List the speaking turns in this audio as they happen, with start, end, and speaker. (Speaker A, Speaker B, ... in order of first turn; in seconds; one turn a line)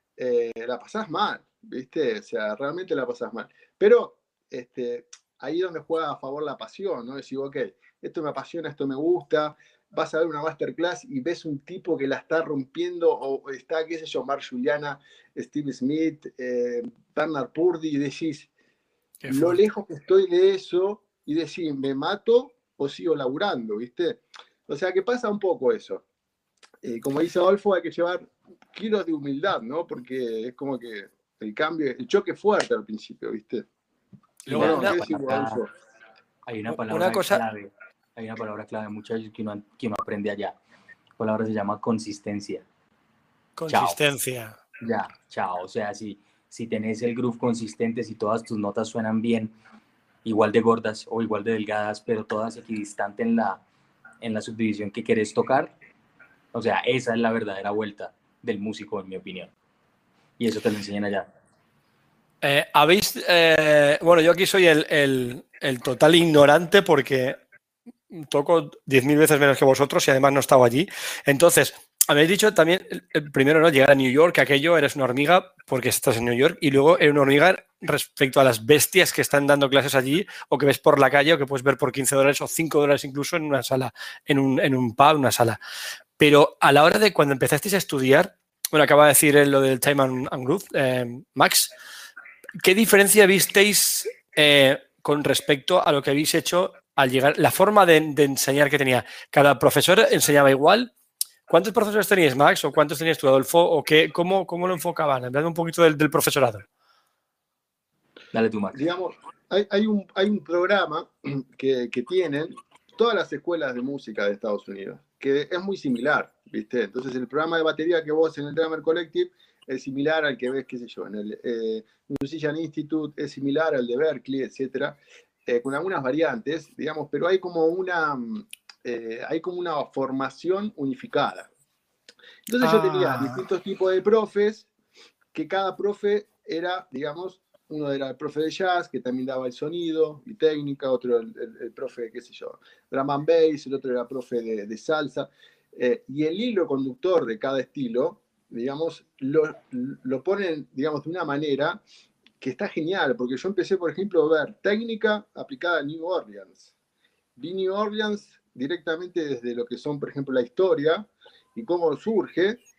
Speaker A: 0.2-18.5
Speaker B: 19.2-19.6
Speaker A: 19.3-26.0
Speaker A: 26.8-33.6
Speaker B: 34.4-35.0
Speaker A: 34.5-35.7
Speaker C: 34.5-35.6
Speaker C: 36.5-40.5
Speaker B: 36.7-37.4
Speaker C: 41.2-42.6
Speaker B: 43.6-44.6
Speaker C: 43.7-44.0
Speaker C: 44.8-49.5
Speaker C: 50.2-53.6
Speaker C: 54.2-55.7
Speaker C: 56.5-59.5
Speaker C: 60.4-61.3
Speaker B: 62.4-67.4
Speaker B: 68.1-85.6
Speaker B: 86.2-91.7
Speaker B: 92.6-100.9
Speaker B: 101.5-106.7
Speaker C: 108.3-108.8
Speaker A: 108.7-131.5
Speaker A: 132.5-134.7
Speaker B: 132.6-133.4
Speaker A: 135.3-151.8
Speaker A: 152.4-156.7
Speaker A: 157.4-162.6